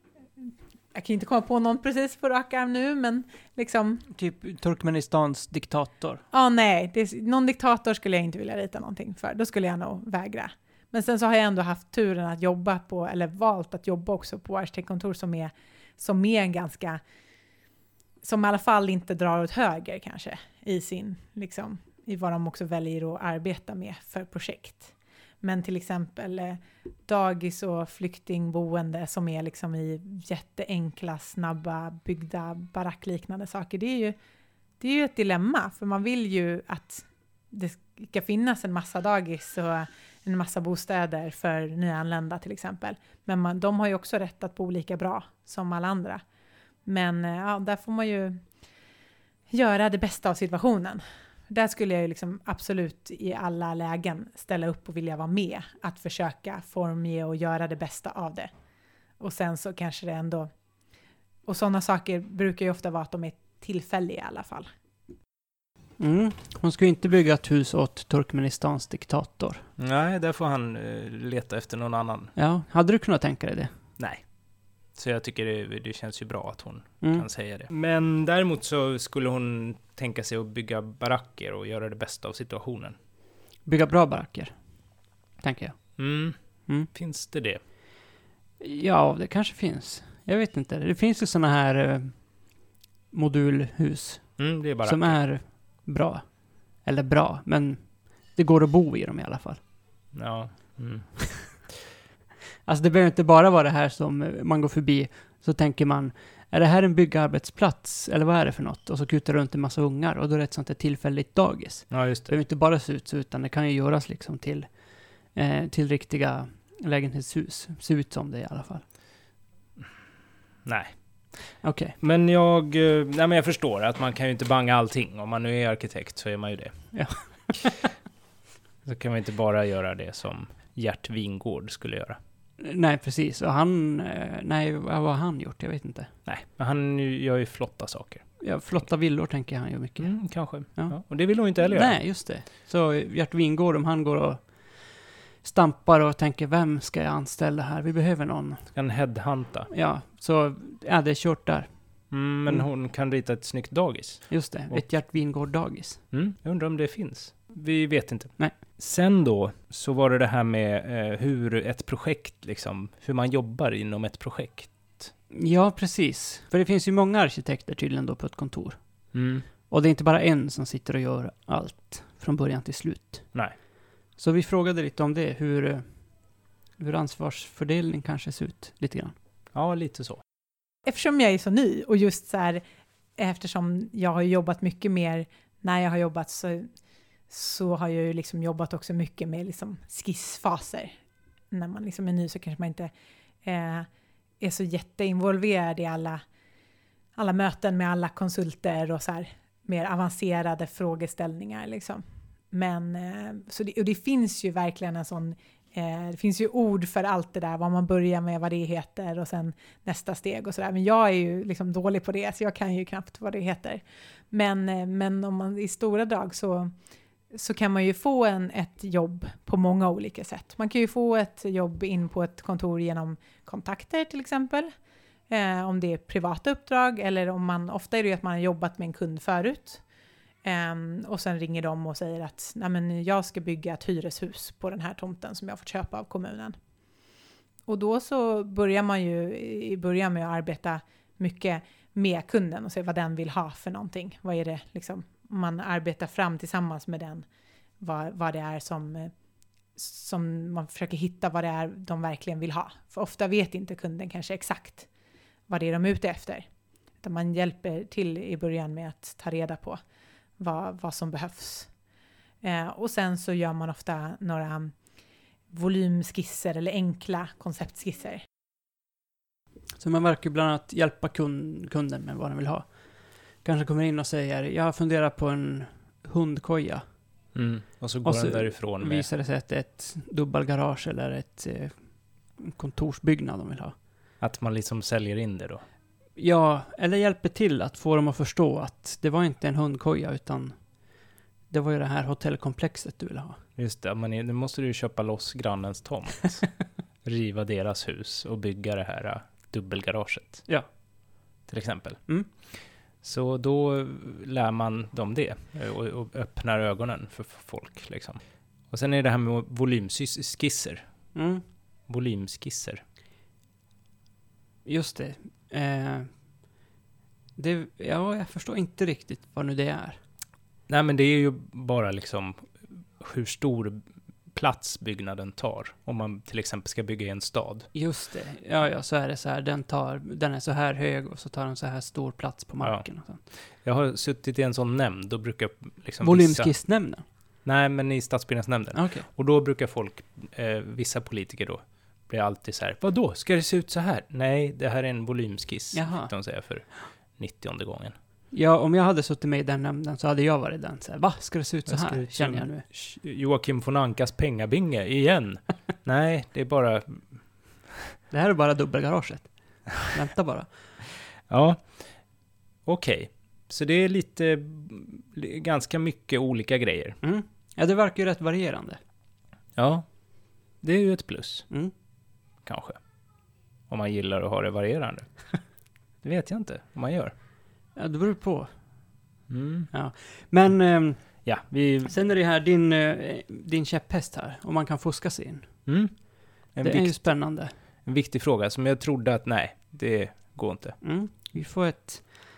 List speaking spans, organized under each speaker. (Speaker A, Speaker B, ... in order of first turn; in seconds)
Speaker A: 0.4-4.0, 6.3-17.0, 18.2-34.1, 34.8-46.2, 46.9-48.4, 49.5-58.5, 59.2-60.5, 61.5-64.7, 180.8-182.6, 183.2-186.7, 187.3-190.9, 191.5-192.9, 193.4-193.9, 194.4-196.2, 197.2-216.7, 217.3-224.7, 225.3-229.8, 230.4-236.6, 237.7-247.2, 247.8-249.1, 249.8-254.9, 255.5-256.4, 257.0-259.8, 260.4-261.7, 262.4-264.7, 265.5-268.2
Speaker B: 4.1-6.2, 66.0-69.7, 72.3-73.7, 77.0-77.3, 83.7-84.5, 85.4-85.8, 88.6-92.2, 93.1-96.3, 96.8-99.6, 102.7-114.7, 115.3-118.8, 121.6-122.0, 126.9-127.8, 132.6-136.1, 138.4-141.0, 141.5-148.7, 149.7-151.7, 154.3-156.0, 165.3-168.8, 169.7-173.3, 174.2-175.8, 176.8-179.1, 269.8-272.7, 273.4-276.8, 278.0-283.7, 286.2-290.6, 291.5-293.4, 311.1-311.4, 314.6-316.1, 317.4-320.0, 327.7-333.2, 336.0-337.0, 338.7-339.1, 345.7-346.1, 348.3-352.6, 358.1-360.5, 367.0-368.8, 377.8-378.5, 379.7-381.2, 381.9-385.7, 386.6-387.5, 390.8-392.2
Speaker C: 69.8-72.3, 74.9-83.0, 86.0-86.3, 86.9-87.6, 94.4-95.2, 100.1-101.7, 111.9-112.3, 120.6-121.0, 122.0-126.9, 128.8-132.2, 136.2-138.3, 140.0-142.0, 148.7-149.7, 152.1-154.8, 156.1-165.1, 169.1-169.5, 179.5-180.2, 277.3-279.1, 284.2-285.6, 293.6-296.5, 297.0-300.5, 301.5-302.0, 303.0-310.9, 311.9-312.8, 320.7-327.7, 332.6-332.9, 333.6-336.5, 337.4-347.9, 351.6-357.9, 361.3-361.9, 362.6-367.0, 369.6-369.9, 370.6-371.5, 372.4-372.8, 373.7-375.4, 376.0-377.1, 379.3-379.7, 381.2-381.9, 385.7-387.2, 387.8-390.8